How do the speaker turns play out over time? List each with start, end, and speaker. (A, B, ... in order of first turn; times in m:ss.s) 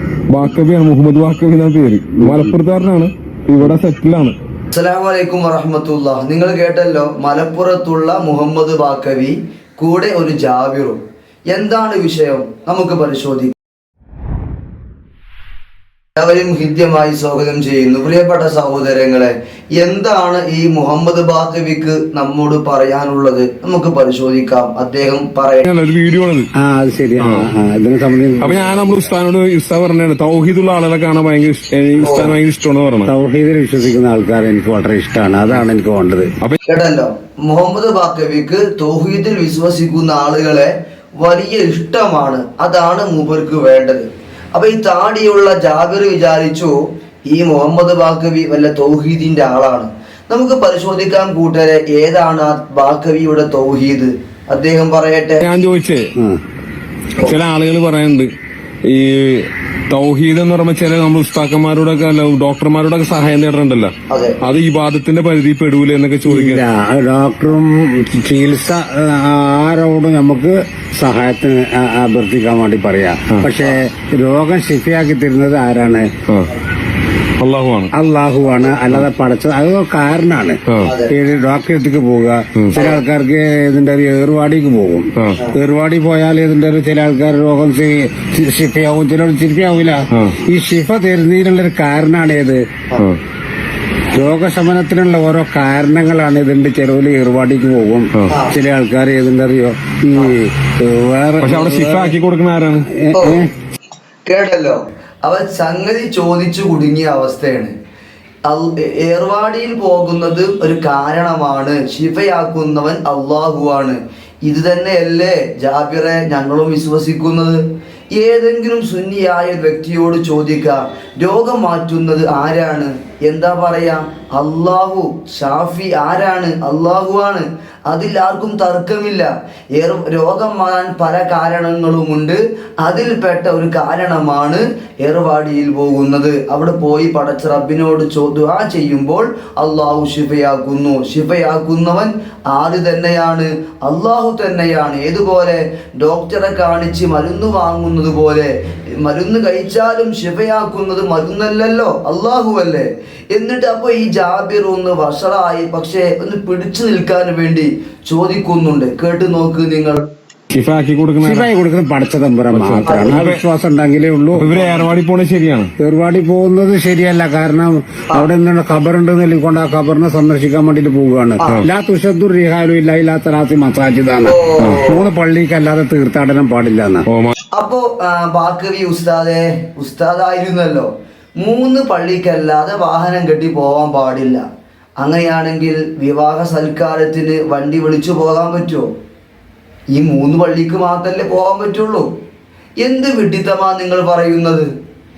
0:00.3-0:04.4 A
0:02.2-0:02.5 B
0:04.7-0:11.0 C
0:11.5-0:13.5 C
0:16.2-0:25.6 C
0:25.6-0:26.5 A
0:26.6-0:29.1 B
0:27.2-0:27.5 A
0:28.4-0:33.1 A
0:32.0-0:32.3 C
0:33.0-0:36.3 B
0:36.6-0:40.7 C
0:41.2-0:46.7 C
0:47.3-0:55.4 C
0:55.4-0:56.0 A
0:57.2-0:58.3 A
0:58.8-1:03.9 A
1:04.1-1:04.4 C
1:04.4-1:06.6 A
1:06.2-1:16.1 B
1:16.3-1:16.5 A
1:17.4-1:17.9 A
1:17.9-1:32.6 B
1:20.7-1:20.9 A
1:20.8-1:21.1 C
1:22.6-1:22.8 A
1:22.7-1:23.0 C
1:25.2-1:25.4 A
1:30.1-1:30.4 A
1:34.1-1:42.2 B
1:38.3-1:38.5 C
1:41.4-1:42.9 A
1:42.9-1:43.5 B
1:43.1-1:43.4 C
1:44.2-1:47.7 C
1:48.4-1:57.6 C
1:58.1-2:40.1 C
2:40.5-2:41.5 A
2:41.2-2:44.5 B
2:42.5-2:43.4 A
2:42.9-2:43.2 C
2:44.3-2:45.7 A
2:45.8-2:57.0 B
2:54.2-2:55.1 C
2:54.6-2:54.9 A
2:57.1-2:57.3 A
2:57.5-3:04.4 C
3:05.0-3:08.9 C
3:09.9-3:12.1 C
3:12.8-3:14.7 C